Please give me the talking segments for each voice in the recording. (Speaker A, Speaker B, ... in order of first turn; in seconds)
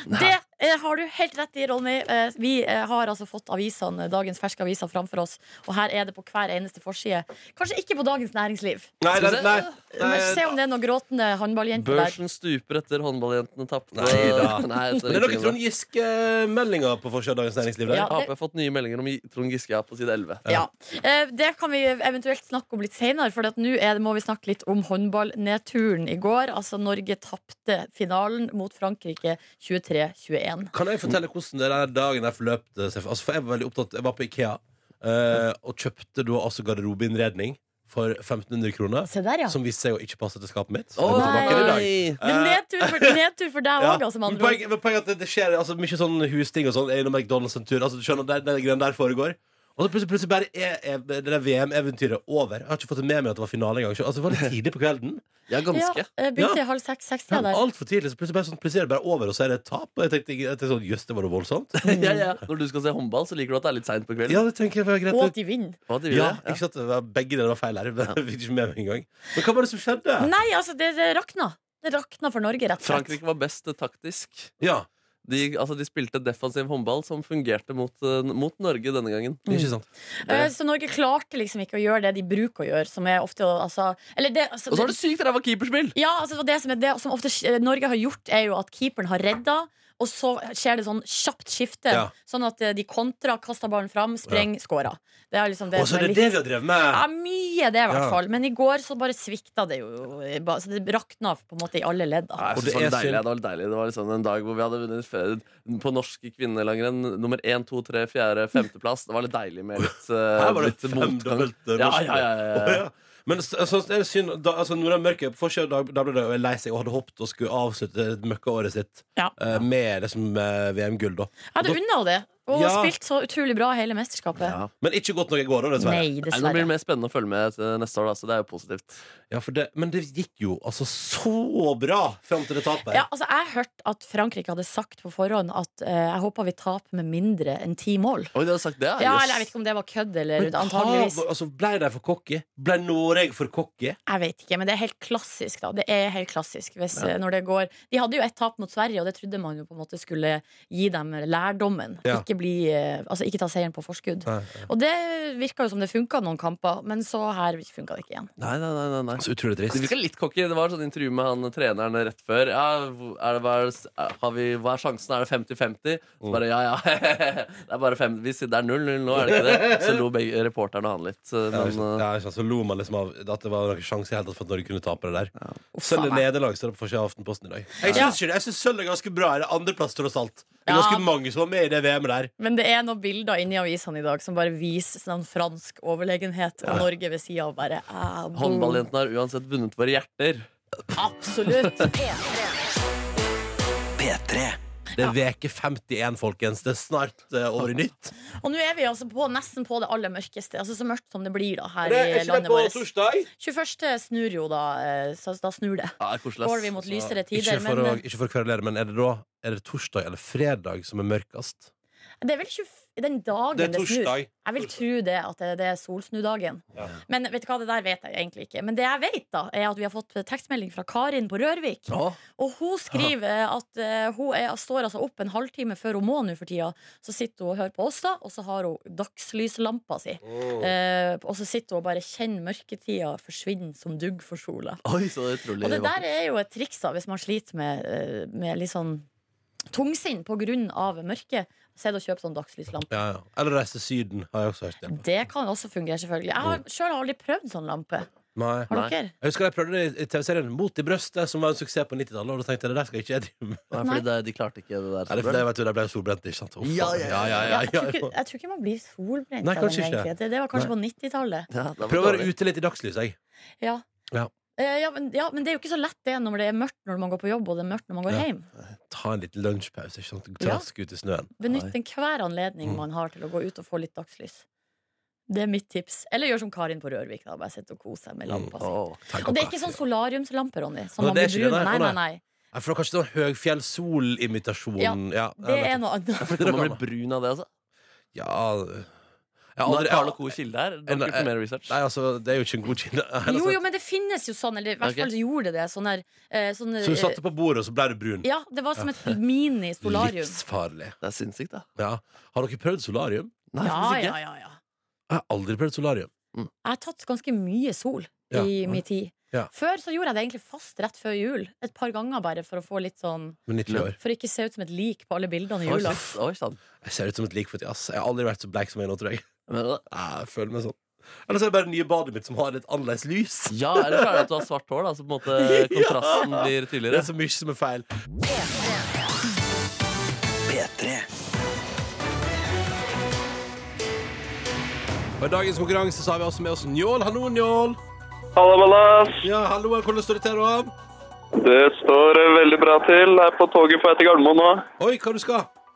Speaker A: 0.1-8.9, 9.9-12.2, 17.9-18.3, 20.5-30.7, 39.1-39.6, 41.1-44.6, 55.7-57.6, 61.9-62.2, 65.1-65.8, 70.2-73.2, 79.5-85.0, 86.0-102.4, 121.5-124.6, 125.8-126.7, 132.9-138.3, 139.0-141.2, 144.1-158.3, 175.8-176.2, 177.8-178.2, 180.7-181.1, 182.4-188.8, 190.9-191.9, 198.4-208.0, 212.2-234.8, 235.6-239.1, 239.7-242.9, 244.9-248.1, 248.7-249.1, 257.4-261.5, 264.6-268.5, 270.4-270.7, 271.4-274.4, 275.3-282.2, 284.8-286.4, 293.2-297.2, 298.2-300.4, 303.6-304.6, 306.6-313.4, 314.0-316.1
Speaker B: 9.0-10.6, 13.9-18.1, 30.7-43.2, 43.8-55.2, 57.3-62.1, 64.3-65.3, 66.1-70.3, 74.6-74.9, 79.5-79.9, 95.7-97.0, 97.9-98.2, 102.5-103.2, 110.3-121.8, 122.5-122.9, 124.8-126.1, 129.3-133.1, 140.4-144.0, 154.3-154.7, 159.2-159.9, 169.1-170.0, 171.5-182.3, 195.0-198.2, 201.8-203.3, 207.3-211.7, 213.5-214.3, 230.2-230.7, 242.9-245.0, 248.3-253.7, 255.1-258.1, 259.4-260.7, 261.9-263.2, 268.9-271.3, 278.3-278.5, 279.0-279.8, 281.0-282.0, 282.5-285.8, 286.4-286.8, 288.1-288.9, 289.6-290.3, 290.9-293.6, 296.8-298.3, 299.8-301.0, 301.8-303.3, 305.1-306.1, 308.3-309.5, 313.5-314.0, 316.8-319.2, 319.9-324.3, 325.4-327.9, 335.2-337.8, 339.2-340.7, 344.8-345.5
Speaker C: 9.2-9.8, 11.8-15.6, 18.0-20.4, 41.0-42.2, 55.5-56.1, 61.8-64.4, 65.9-66.6, 72.8-74.5, 75.2-79.4, 84.7-86.0, 102.4-112.8, 124.4-124.7, 126.3-129.0, 138.3-139.5, 158.4-172.0, 188.4-190.5, 206.0-207.1, 221.9-222.2, 234.8-236.0, 253.7-255.4, 256.6-257.6, 261.5-262.3, 278.6-279.0, 286.2-287.5, 289.6-291.8, 294.8-295.1, 301.0-301.6, 303.5-304.2, 315.7-316.6, 319.5-319.8, 323.5-327.1
Speaker D: 191.9-192.5, 194.0-194.6, 328.3-328.7, 330.5-331.1
Speaker E: 338.4-339.3, 341.4-344.7